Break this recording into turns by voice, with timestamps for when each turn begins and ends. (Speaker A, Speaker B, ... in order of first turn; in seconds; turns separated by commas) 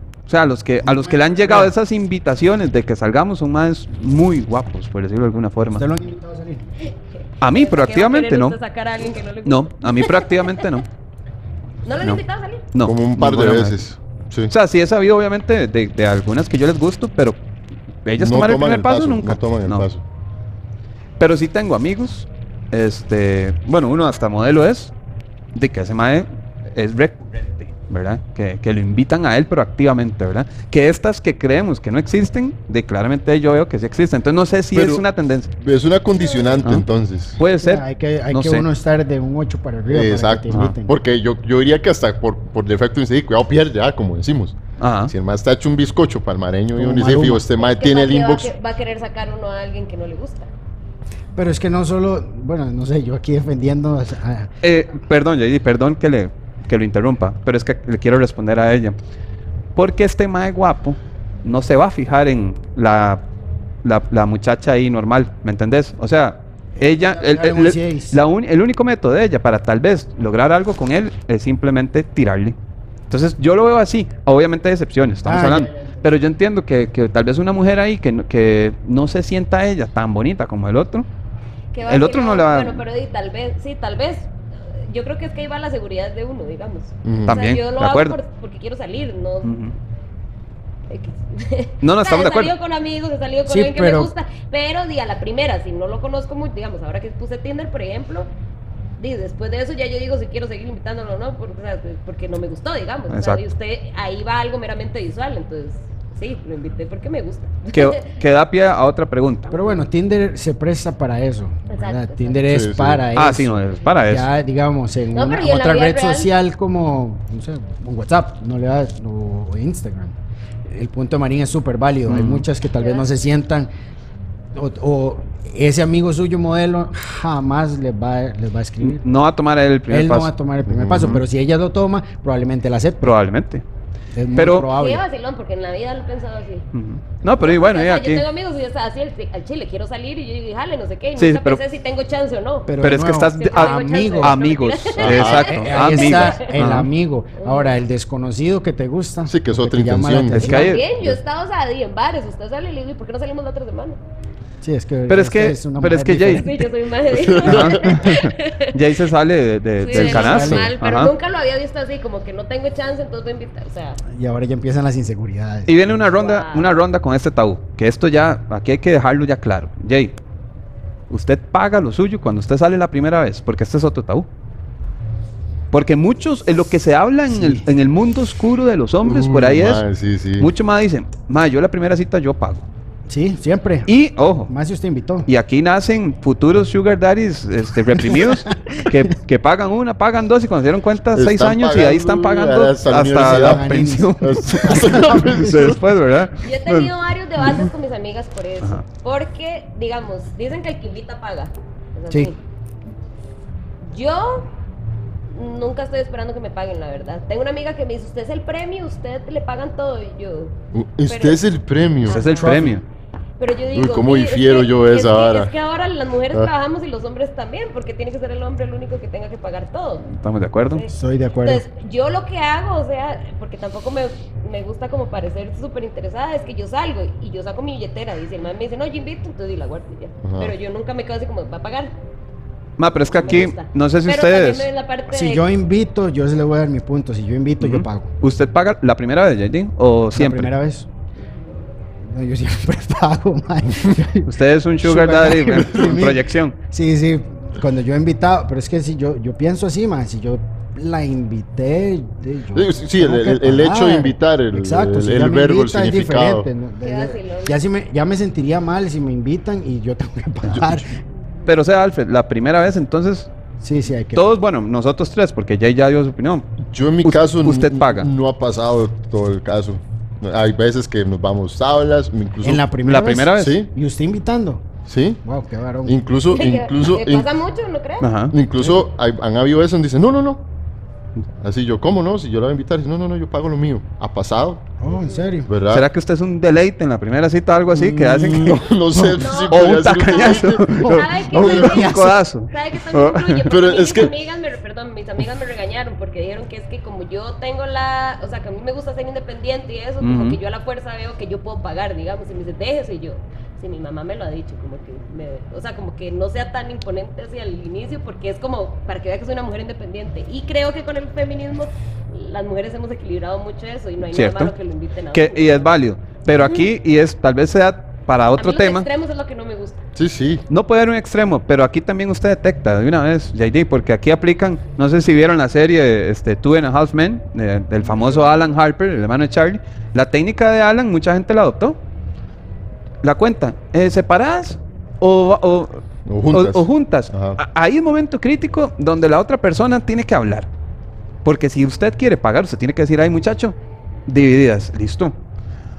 Speaker A: 0.3-5.9, Speaker B: 0.8-1.7, Speaker B: 5.7-6.6, Speaker A: 7.4-8.6, Speaker C: 7.4-10.7, Speaker A: 9.5-10.9, Speaker C: 11.8-12.7, Speaker A: 12.7-13.8, Speaker D: 12.8-14.5, Speaker A: 14.5-17.4, Speaker A: 18.1-19.9, Speaker D: 18.2-20.0, Speaker A: 21.2-24.9, Speaker A: 25.6-35.5, Speaker D: 34.7-35.0, Speaker D: 35.6-37.4, Speaker A: 37.4-38.7, Speaker B: 37.6-40.9, Speaker D: 39.9-48.5, Speaker A: 40.5-40.8, Speaker A: 44.8-45.1, Speaker B: 46.8-47.5, Speaker C: 47.6-50.5, Speaker B: 51.4-54.5, Speaker A: 54.6-59.0, Speaker A: 59.8-63.2, Speaker A: 63.8-72.6, Speaker B: 67.0-68.2, Speaker A: 73.1-81.1, Speaker B: 75.2-75.7, Speaker C: 81.7-89.5, Speaker A: 81.9-82.8, Speaker D: 87.0-87.4, Speaker A: 87.3-88.2, Speaker A: 89.4-89.7, Speaker C: 90.9-98.3, Speaker A: 91.8-92.5, Speaker B: 93.5-94.1, Speaker C: 99.0-108.2, Speaker A: 103.1-103.4, Speaker A: 107.7-109.5, Speaker C: 109.5-109.8, Speaker B: 109.5-120.2, Speaker C: 111.7-112.5, Speaker D: 112.5-113.1, Speaker A: 113.1-114.3, Speaker C: 115.1-116.3, Speaker B: 120.7-123.7, Speaker A: 122.1-122.5, Speaker C: 122.8-123.1, Speaker B: 124.5-129.0, Speaker A: 128.8-130.3, Speaker B: 129.9-133.1, Speaker D: 130.7-131.2, Speaker A: 130.9-131.2, Speaker A: 133.0-133.6, Speaker B: 134.2-135.0, Speaker A: 134.3-134.7, Speaker C: 134.7-136.7, Speaker A: 136.7-138.2, Speaker C: 137.3-142.7, Speaker A: 141.2-141.6, Speaker B: 142.7-144.4, Speaker A: 142.8-146.9, Speaker C: 143.3-146.6, Speaker D: 145.0-145.6, Speaker B: 145.2-150.7, Speaker C: 147.4-147.8, Speaker D: 149.3-151.2, Speaker A: 150.3-150.8, Speaker C: 150.4-154.0, Speaker B: 154.6-156.6, Speaker A: 155.1-156.7, Speaker C: 156.3-158.8, Speaker D: 157.1-157.8, Speaker A: 157.3-161.1, Speaker C: 159.8-164.0, Speaker B: 159.9-160.7, Speaker B: 164.1-165.8, Speaker A: 165.7-170.1, Speaker C: 166.2-166.8, Speaker A: 171.1-174.3, Speaker A: 175.7-179.8, Speaker B: 177.3-177.6, Speaker D: 179.0-180.5, Speaker A: 180.4-182.7, Speaker B: 183.1-183.9, Speaker A: 183.9-184.5, Speaker B: 184.5-185.3, Speaker A: 185.3-197.7, Speaker D: 191.1-195.8, Speaker B: 193.1-195.5, Speaker C: 196.4-202.4, Speaker C: 203.8-204.5, Speaker C: 205.3-210.6, Speaker D: 210.7-212.4, Speaker C: 211.1-211.4, Speaker C: 212.1-212.8, Speaker A: 212.1-212.8, Speaker B: 212.4-212.8, Speaker C: 213.4-220.1, Speaker D: 213.7-215.5, Speaker A: 220.1-220.8, Speaker C: 220.7-231.9, Speaker B: 220.9-221.7, Speaker D: 230.2-230.5, Speaker A: 232.8-234.7, Speaker C: 233.1-235.5, Speaker B: 235.1-238.1, Speaker A: 237.6-240.5, Speaker B: 240.1-240.9, Speaker B: 242.1-261.0, Speaker A: 244.3-246.6, Speaker D: 252.5-256.5, Speaker C: 256.8-257.6, Speaker A: 261.5-263.3, Speaker B: 263.6-264.2, Speaker A: 264.1-266.5, Speaker D: 266.6-272.7, Speaker A: 267.0-268.1, Speaker B: 272.4-274.6, Speaker A: 272.9-273.6, Speaker D: 273.3-273.7, Speaker D: 274.9-275.2, Speaker B: 275.2-275.9, Speaker D: 275.9-277.3, Speaker C: 276.3-278.1, Speaker A: 278.0-278.4, Speaker D: 278.3-280.4, Speaker D: 281.4-284.6, Speaker B: 284.8-285.5, Speaker C: 285.0-285.3, Speaker D: 285.5-285.9, Speaker A: 285.7-293.4, Speaker D: 287.7-290.7, Speaker C: 289.2-315.7, Speaker B: 290.8-292.2, Speaker D: 293.5-294.1, Speaker A: 300.0-300.4, Speaker A: 314.1-314.5, Speaker A: 315.1-318.9, Speaker C: 316.3-316.7, Speaker C: 318.4-319.8, Speaker D: 320.0-320.4, Speaker A: 320.5-331.8, Speaker A: 333.0-340.5, Speaker D: 336.1-337.4, Speaker A: 341.2-343.6, Speaker A: 344.1-345.1